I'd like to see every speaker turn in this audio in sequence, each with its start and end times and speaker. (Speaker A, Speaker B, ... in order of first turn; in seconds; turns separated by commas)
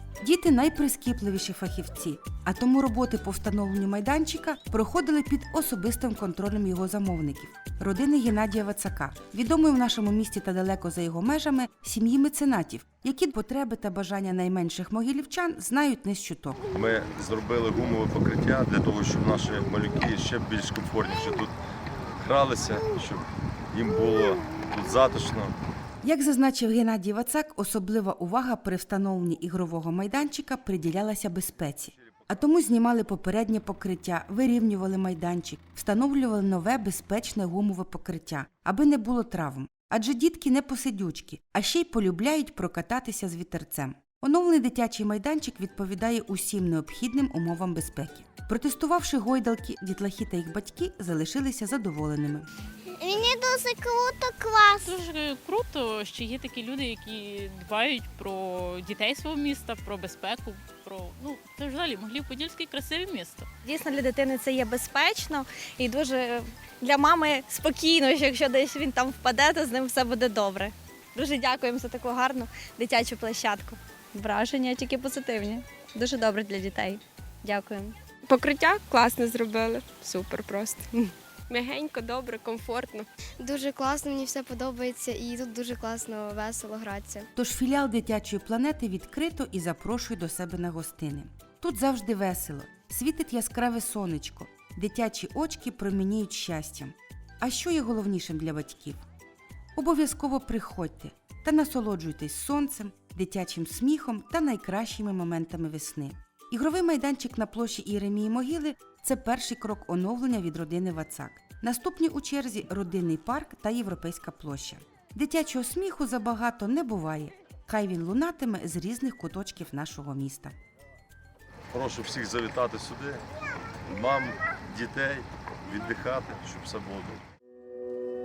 Speaker A: 0.2-16.6, Speaker B: 16.7-21.5, Speaker B: 22.2-25.6, Speaker A: 26.0-52.5, Speaker C: 52.9-54.9, Speaker D: 54.8-63.5, Speaker E: 63.7-76.9, Speaker E: 77.5-77.9, Speaker F: 78.4-78.8, Speaker F: 79.7-80.8, Speaker F: 81.5-83.0, Speaker G: 83.4-87.3, Speaker A: 87.4-99.0, Speaker A: 99.8-120.5, Speaker B: 121.7-123.2, Speaker B: 123.8-127.2